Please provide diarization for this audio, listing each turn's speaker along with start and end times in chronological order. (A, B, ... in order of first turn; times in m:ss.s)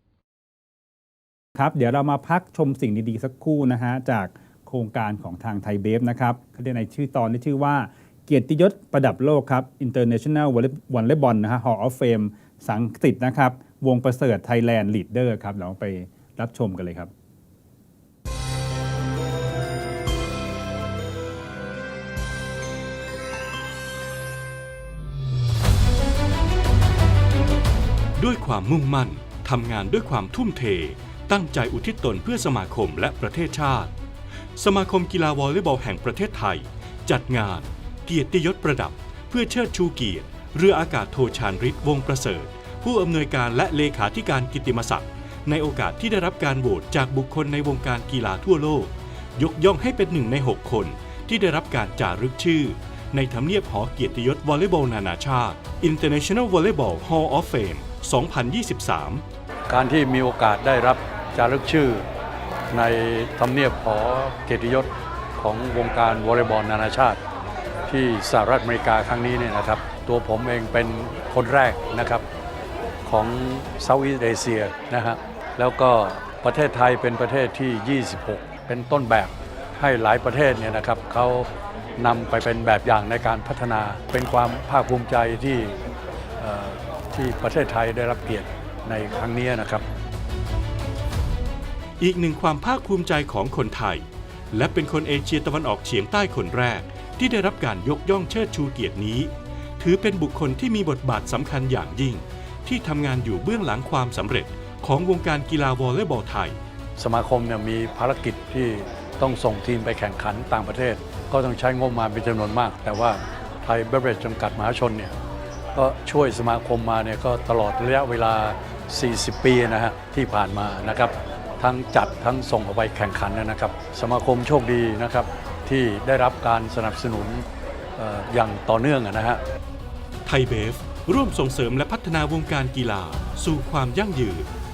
0:01.6-0:17.1 A
0:28.2-0:33.9 B
0:34.6-0:59.2 B
0:59.7-1:02.1 C
1:02.7-1:07.2 C
1:07.9-1:12.2 C
1:13.0-1:25.8 C
1:26.4-1:29.8 C
1:32.0-1:46.6 B
1:47.0-1:55.2 C
1:55.7-2:07.4 C
2:08.0-2:09.4 C
2:10.2-2:14.5 B